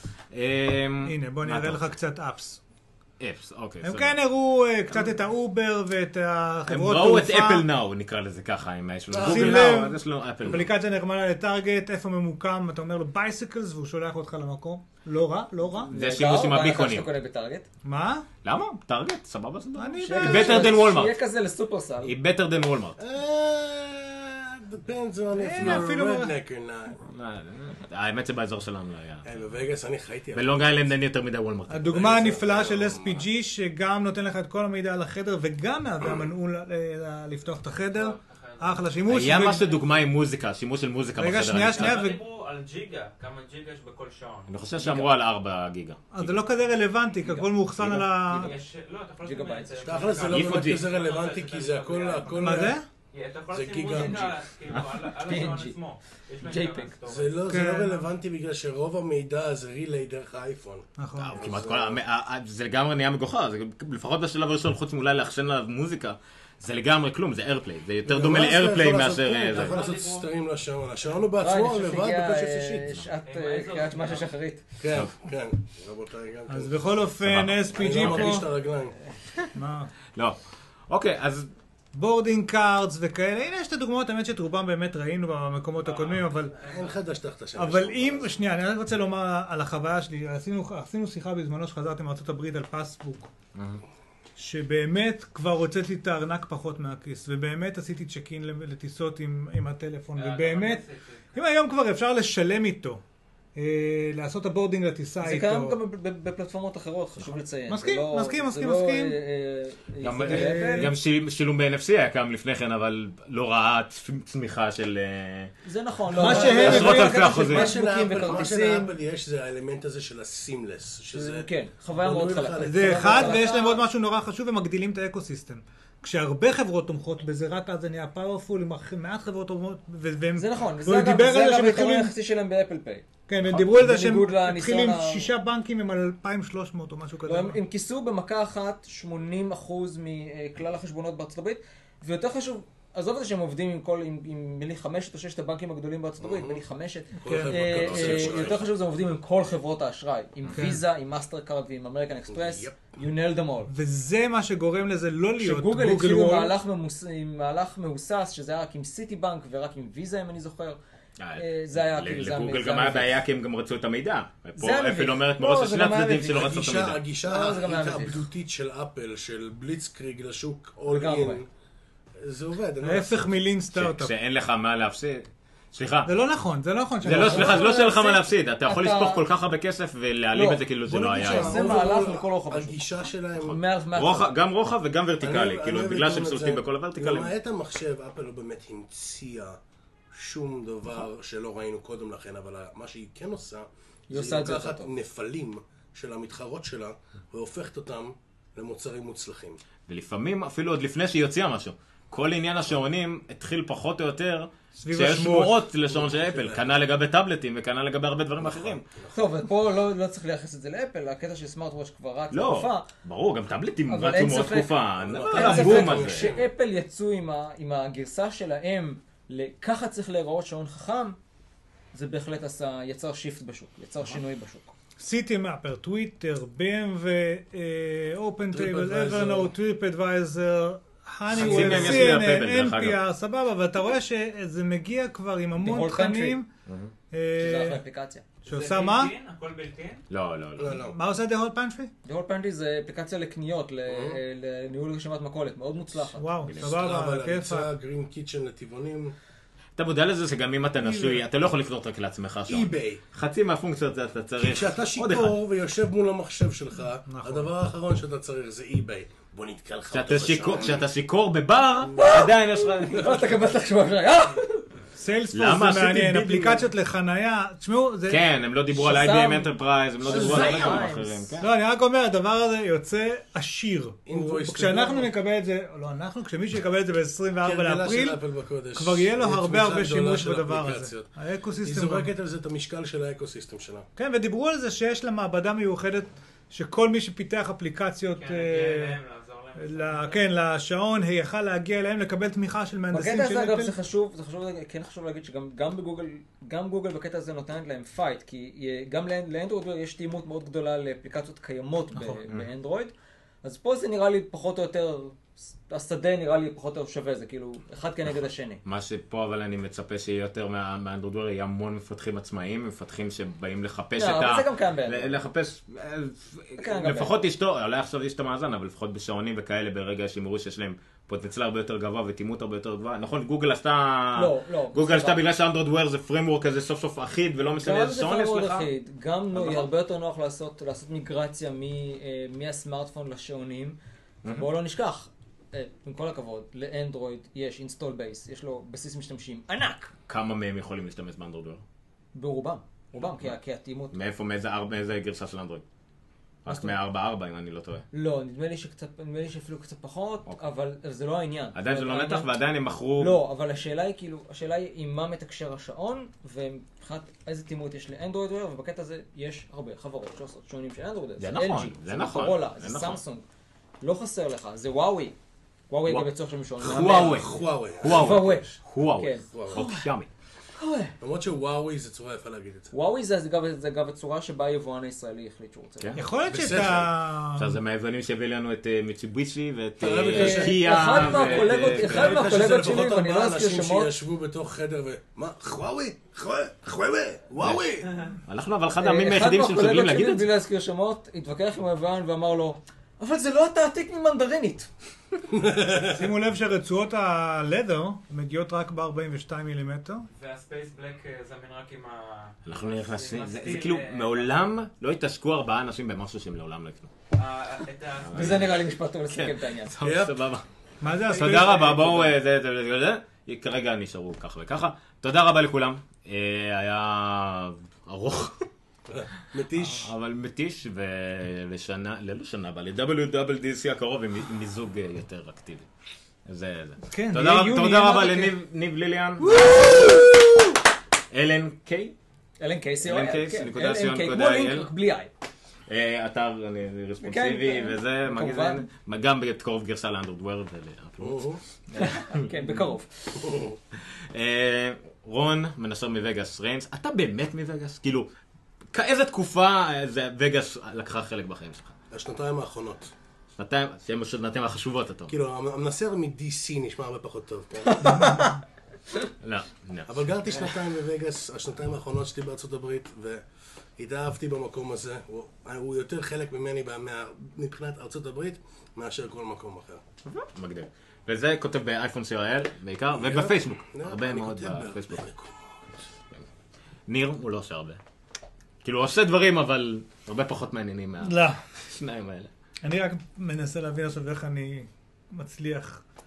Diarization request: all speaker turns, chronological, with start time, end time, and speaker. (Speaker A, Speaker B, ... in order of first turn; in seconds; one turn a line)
Speaker A: 0.3-1.8
Speaker B: 1.0-2.6
Speaker A: 3.2-4.2
Speaker B: 3.8-7.7
Speaker A: 6.7-10.7
Speaker B: 9.1-15.9
Speaker C: 9.2-9.7
Speaker A: 15.9-17.1
Speaker D: 15.9-17.7
Speaker B: 17.8-18.3
Speaker A: 18.4-21.1
Speaker B: 19.8-20.7
Speaker D: 20.0-22.1
Speaker A: 22.0-23.0
Speaker C: 23.0-27.0
Speaker B: 25.3-26.3
Speaker A: 27.0-29.2
Speaker C: 29.2-30.6
Speaker A: 30.3-32.2
Speaker B: 31.7-39.7
Speaker C: 31.9-33.2
Speaker E: 37.9-39.9
Speaker A: 39.1-42.0
Speaker B: 41.2-42.2
Speaker E: 41.6-44.5
Speaker A: 44.5-46.4
Speaker D: 44.8-45.1
Speaker B: 46.1-48.5
Speaker D: 47.2-48.6
Speaker E: 48.3-57.4
Speaker D: 49.2-50.2
Speaker C: 49.8-52.8
Speaker A: 50.2-50.9
Speaker B: 52.4-52.9
Speaker C: 53.5-54.4
Speaker D: 55.2-55.8
Speaker D: 56.4-56.9
Speaker C: 57.0-62.0
Speaker B: 57.5-58.1
Speaker B: 61.0-61.4
Speaker A: 61.2-69.8
Speaker C: 68.0-73.0
Speaker E: 69.5-70.3
Speaker D: 71.4-74.6
Speaker E: 73.2-74.3
Speaker C: 74.8-76.8
Speaker B: 76.5-78.5
Speaker A: 77.2-78.3
Speaker C: 77.7-79.0
Speaker B: 79.5-79.9
Speaker A: 80.1-81.5
Speaker B: 81.9-86.5
Speaker E: 85.8-87.0
Speaker C: 86.6-88.3
Speaker B: 87.6-93.3
Speaker A: 93.5-93.8
Speaker B: 94.3-103.0
Speaker E: 100.2-101.3
Speaker B: 103.5-105.8
Speaker D: 105.2-110.9
Speaker B: 107.7-109.2
Speaker A: 110.0-115.5
Speaker B: 110.2-110.9
Speaker D: 115.6-118.9
Speaker B: 116.1-117.7
Speaker C: 116.2-123.5
Speaker A: 116.2-117.7
Speaker D: 121.1-123.8
Speaker B: 122.7-132.1
Speaker D: 130.4-135.3
Speaker B: 133.3-137.6
Speaker D: 137.2-153.7
Speaker C: 146.2-146.6
Speaker C: 147.2-148.7
Speaker B: 147.2-148.0
Speaker A: 148.1-148.5
Speaker B: 150.5-150.8
Speaker C: 152.3-152.8
Speaker B: 153.7-156.5
Speaker D: 155.4-160.8
Speaker A: 161.2-167.0
Speaker D: 161.4-163.2
Speaker D: 164.6-166.6
Speaker C: 166.3-171.5
Speaker D: 167.2-168.2
Speaker D: 170.9-171.4
Speaker C: 172.2-173.3
Speaker B: 172.8-174.1
Speaker A: 173.7-176.2
Speaker B: 176.1-177.7
Speaker A: 177.0-181.8
Speaker D: 177.1-179.2
Speaker D: 180.3-184.3
Speaker C: 180.8-183.6
Speaker A: 183.9-187.3
Speaker C: 185.2-189.6
Speaker C: 190.1-199.6
Speaker D: 194.1-194.9
Speaker A: 199.9-208.8
Speaker B: 204.8-205.6
Speaker C: 205.9-206.7
Speaker C: 208.4-209.2
Speaker D: 209.1-212.9
Speaker A: 212.3-216.4
Speaker D: 213.9-221.2
Speaker C: 215.0-216.5
Speaker D: 221.9-224.7
Speaker B: 225.0-236.5
Speaker C: 228.5-229.5
Speaker A: 231.3-233.0
Speaker C: 231.4-232.1
Speaker D: 235.6-236.4
Speaker A: 236.7-236.9
Speaker B: 237.1-237.8
Speaker D: 237.4-238.2
Speaker E: 238.4-240.0
Speaker B: 238.5-239.1
Speaker A: 240.1-240.8
Speaker C: 240.6-241.0
Speaker B: 240.7-241.9
Speaker D: 242.0-246.3
Speaker C: 243.9-244.2
Speaker B: 246.2-247.7
Speaker A: 246.4-246.7
Speaker C: 246.6-249.1
Speaker A: 249.8-255.4
Speaker B: 250.8-251.2
Speaker C: 252.5-253.0
Speaker C: 254.4-260.9
Speaker B: 257.1-257.5
Speaker A: 259.9-263.2
Speaker D: 261.9-264.6
Speaker B: 264.9-268.2
Speaker A: 265.3-266.3
Speaker C: 266.2-266.6
Speaker A: 268.1-271.5
Speaker D: 268.7-271.1
Speaker C: 270.0-270.9
Speaker B: 271.4-278.2
Speaker C: 274.1-275.1
Speaker C: 277.4-281.1
Speaker B: 278.7-282.1
Speaker C: 281.6-283.9
Speaker B: 284.0-289.0
Speaker E: 288.1-290.2
Speaker B: 289.6-293.7
Speaker D: 292.9-308.6
Speaker A: 308.6-328.7
Speaker D: 313.9-315.1
Speaker D: 316.6-317.1
Speaker D: 324.1-325.2
Speaker D: 327.6-339.9
Speaker A: 329.3-329.7
Speaker A: 340.1-341.6
Speaker D: 342.1-343.9
Speaker A: 343.9-345.6
Speaker A: 346.4-347.8
Speaker D: 346.5-346.8
Speaker D: 347.9-352.3
Speaker A: 351.5-353.2
Speaker D: 353.0-363.2
Speaker A: 361.2-363.0
Speaker D: 363.8-365.1
Speaker D: 365.7-369.9
Speaker A: 365.9-370.1
Speaker C: 366.6-368.5
Speaker C: 369.3-369.6
Speaker D: 370.6-370.9
Speaker C: 371.0-372.7
Speaker D: 372.7-376.0
Speaker B: 375.9-377.6
Speaker C: 376.2-376.9
Speaker A: 377.3-382.3
Speaker C: 379.8-388.0
Speaker D: 380.0-383.9
Speaker A: 387.4-387.7
Speaker A: 388.2-390.3
Speaker D: 388.8-394.7
Speaker C: 395.3-395.9
Speaker B: 395.7-400.1
Speaker E: 400.1-404.4
Speaker A: 402.4-406.9
Speaker E: 407.1-408.6
Speaker A: 408.0-410.4
Speaker D: 408.1-409.7
Speaker C: 409.8-410.2
Speaker B: 410.8-412.1
Speaker A: 411.0-418.4
Speaker C: 418.9-419.9
Speaker A: 419.6-425.7
Speaker A: 426.3-430.1
Speaker B: 426.9-428.3
Speaker D: 429.2-430.3
Speaker A: 431.1-431.9
Speaker D: 432.4-435.1
Speaker A: 432.8-434.7
Speaker A: 435.7-442.6
Speaker D: 437.0-438.7
Speaker C: 441.0-441.4
Speaker D: 441.7-443.4
Speaker C: 443.2-443.6
Speaker A: 443.7-448.1
Speaker A: 448.7-451.8
Speaker C: 451.9-452.9
Speaker A: 453.4-455.1
Speaker C: 455.1-458.3
Speaker D: 457.8-458.3
Speaker A: 459.2-460.4
Speaker C: 459.9-463.2
Speaker C: 463.8-469.8
Speaker A: 470.1-475.1
Speaker C: 472.9-475.4
Speaker A: 476.9-477.8
Speaker A: 478.6-482.3
Speaker B: 481.0-481.4
Speaker B: 482.6-485.8